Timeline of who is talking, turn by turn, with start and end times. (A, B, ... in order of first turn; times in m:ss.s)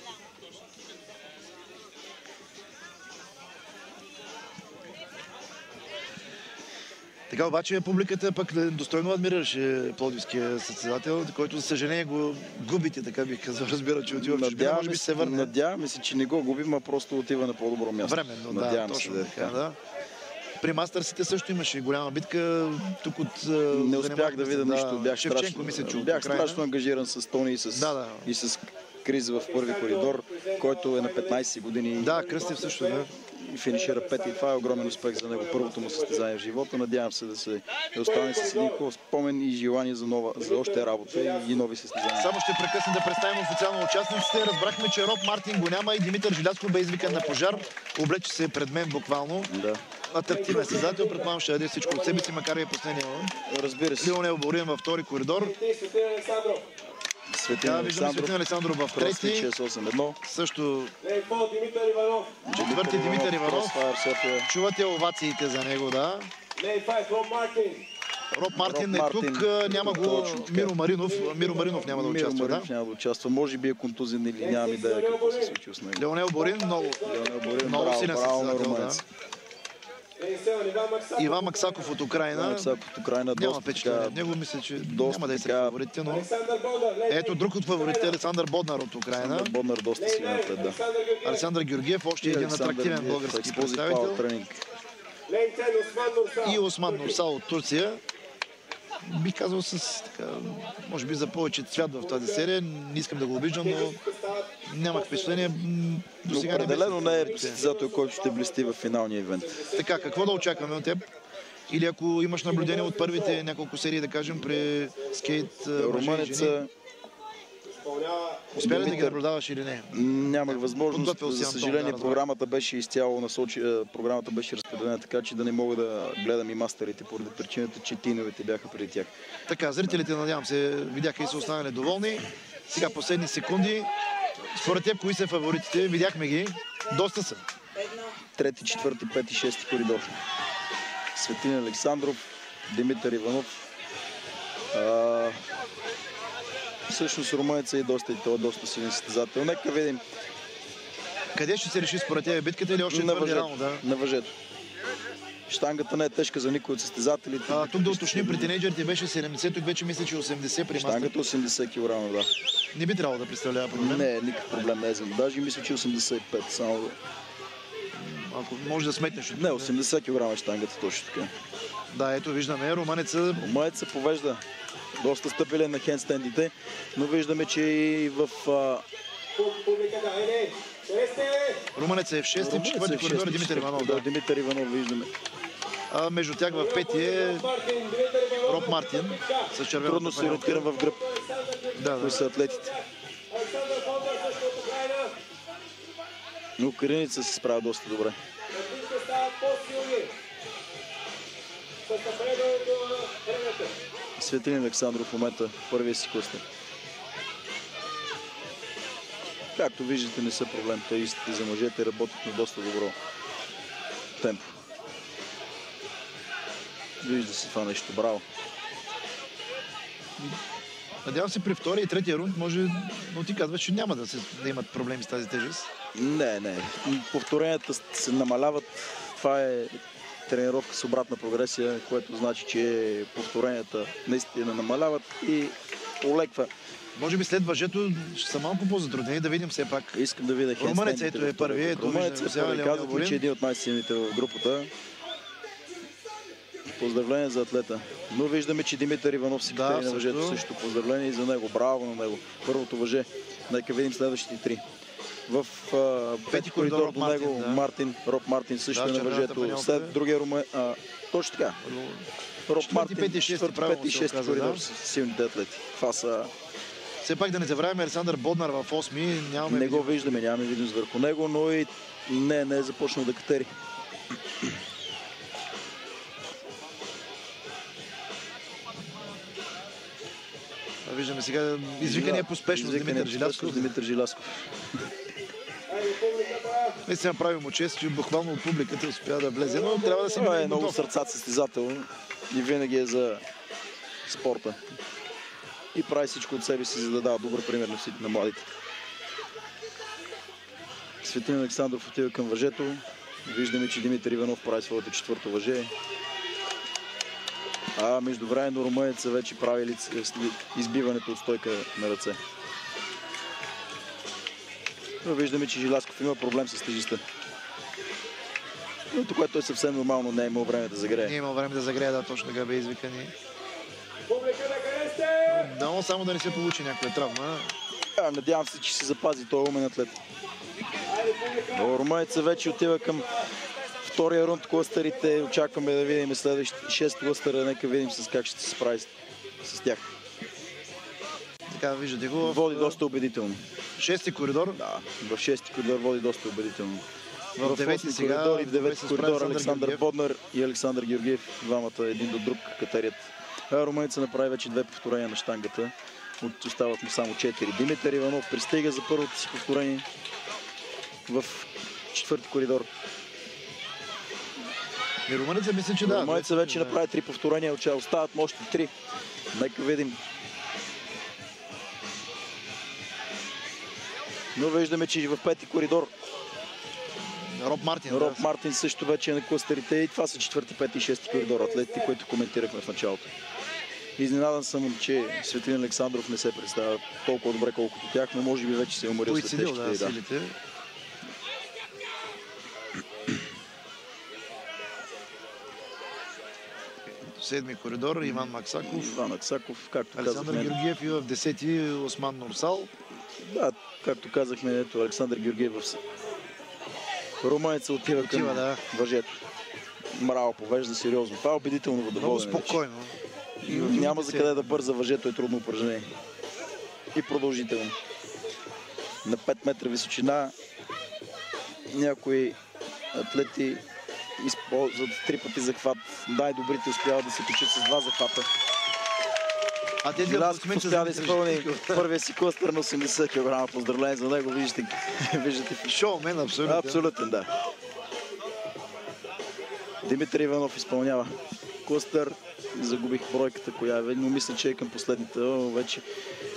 0:07.3-0:15.5 A
0:14.1-0:19.6 B
0:18.0-0:19.8 A
0:20.6-0:26.6 A
0:23.7-0:32.2 B
0:27.7-0:28.3 A
0:29.4-0:31.4 C
0:32.0-0:33.1 A
0:32.0-0:33.1 C
0:33.2-0:42.3 B
0:33.6-0:36.2 C
0:38.0-0:38.8 C
0:40.4-0:41.7 C
0:42.2-0:49.5 A
0:49.5-0:49.8 B
0:50.1-0:53.3 A
0:50.3-0:52.3 C
0:53.4-0:54.2 B
0:54.0-0:55.6 A
0:55.4-0:56.7 C
0:57.3-0:58.4 B
0:57.5-0:59.5 A
0:58.9-1:00.2 B
1:00.2-1:00.9 A
1:01.0-1:02.4 C
1:02.4-1:04.5 B
1:02.5-1:03.8 A
1:04.5-1:06.3 A
1:06.6-1:07.9 C
1:08.3-1:12.7 A
1:08.5-1:10.7 B
1:11.0-1:11.9 C
1:11.9-1:16.0 B
1:14.4-1:15.6 C
1:16.0-1:17.0 A
1:16.4-1:17.8 C
1:17.0-1:19.0 B
1:17.6-1:19.0 A
1:20.2-1:22.0 C
1:21.2-1:22.8 A
1:22.3-1:24.3 B
1:23.3-1:26.3 A
1:24.8-1:25.8 B
1:26.0-1:28.2 C
1:27.1-1:29.5 A
1:29.2-1:30.8 B
1:30.0-1:31.5 C
1:31.2-1:34.2 A
1:32.2-1:34.6 B
1:35.3-1:37.0 C
1:36.4-1:38.0 A
1:39.0-1:44.0 A
1:42.1-1:42.4 C
1:43.6-1:45.5 C
1:44.6-1:47.6 A
1:46.3-1:49.7 B
1:46.4-1:48.8 C
1:49.4-1:50.8 C
1:49.7-1:51.0 A
1:51.7-1:56.6 A
1:52.5-1:53.4 C
1:54.4-1:55.5 C
1:55.7-1:56.7 B
1:57.8-1:58.9 C
1:58.5-2:02.2 A
1:58.6-1:59.2 B
1:59.9-2:09.1 B
2:09.5-2:17.4 A
2:18.4-2:20.2 B
2:21.2-2:23.6 B
2:24.7-2:25.4 B
2:26.9-2:30.0 B
2:31.3-2:33.8 A
2:32.9-2:34.3 B
2:35.5-2:38.5 B
2:37.5-2:41.1 A
2:40.7-2:42.3 B
2:42.7-2:44.1 A
2:43.7-2:47.0 B
2:47.9-2:49.7 A
2:49.3-2:51.3 B
2:51.9-2:53.5 A
2:53.4-2:54.4 B
2:55.0-2:58.8 B
2:59.3-3:01.6 C
3:01.7-3:04.0 A
3:02.3-3:05.1 B
3:05.9-3:07.5 A
3:06.5-3:09.5 C
3:08.4-3:10.7 A
3:09.8-3:11.0 B
3:10.3-3:15.2 C
3:11.7-3:12.2 A
3:12.0-3:12.7 B
3:16.6-3:18.2 B
3:18.5-3:20.1 C
3:21.8-3:23.8 C
3:24.2-3:26.4 B
3:29.5-3:33.0 B
3:34.2-3:34.5 B
3:37.0-3:38.2 B
3:41.0-3:45.7 A
3:45.9-3:56.5 B
3:57.0-3:59.9 A
3:59.9-4:04.7 B
4:00.6-4:03.2 A
4:06.7-4:14.6 B
4:09.4-4:10.4 A
4:15.3-4:21.6 B
4:16.3-4:17.6 A
4:18.7-4:20.0 A
4:21.6-4:22.1 A
4:22.5-4:26.3 B
4:22.6-4:24.6 A
4:27.0-4:30.2 A
4:29.4-4:33.5 B
4:40.8-4:43.7 A
4:41.8-4:44.6 B
4:45.7-4:46.8 C
4:46.8-4:50.8 A
4:49.4-4:50.4 C
4:50.1-4:53.2 B
4:54.0-4:54.6 B
4:55.7-4:58.5 B
5:01.0-5:05.7 B
5:07.8-5:12.2 B
5:15.0-5:17.0 B
5:18.9-5:21.2 B
5:21.0-5:23.1 A
5:24.1-5:25.5 C
5:25.3-5:27.5 A
5:28.0-5:30.0 B
5:30.8-5:33.3 C
5:31.5-5:33.1 B
5:33.8-5:38.9 B
5:39.4-5:39.9 B
5:41.5-5:42.8 A
5:42.2-5:43.4 B
5:43.8-5:44.6 A
5:44.6-5:46.8 B
5:47.4-5:59.8 B
5:47.4-5:49.8 A
6:01.1-6:02.7 B
6:05.1-6:06.8 A
6:05.8-6:08.7 B
6:09.3-6:10.0 B
6:14.3-6:15.9 B
6:17.2-6:18.2 A
6:17.9-6:23.1 B
6:24.0-6:30.0 B
6:29.0-6:30.4 A
6:37.0-6:39.0 A
6:38.2-6:40.6 B
6:39.9-6:42.7 A
6:43.2-6:45.8 B
6:47.2-6:49.2 B
6:47.8-6:48.6 A
6:49.9-6:52.6 B
6:52.0-6:54.6 A
6:53.4-6:55.9 B
6:56.9-6:57.8 B
6:59.0-7:00.3 B
7:01.7-7:02.4 B
7:02.9-7:03.6 B
7:04.2-7:08.3 B
7:09.8-7:11.8 A
7:10.0-7:15.8 B
7:15.7-7:16.9 A
7:16.4-7:17.3 B
7:19.8-7:25.8 B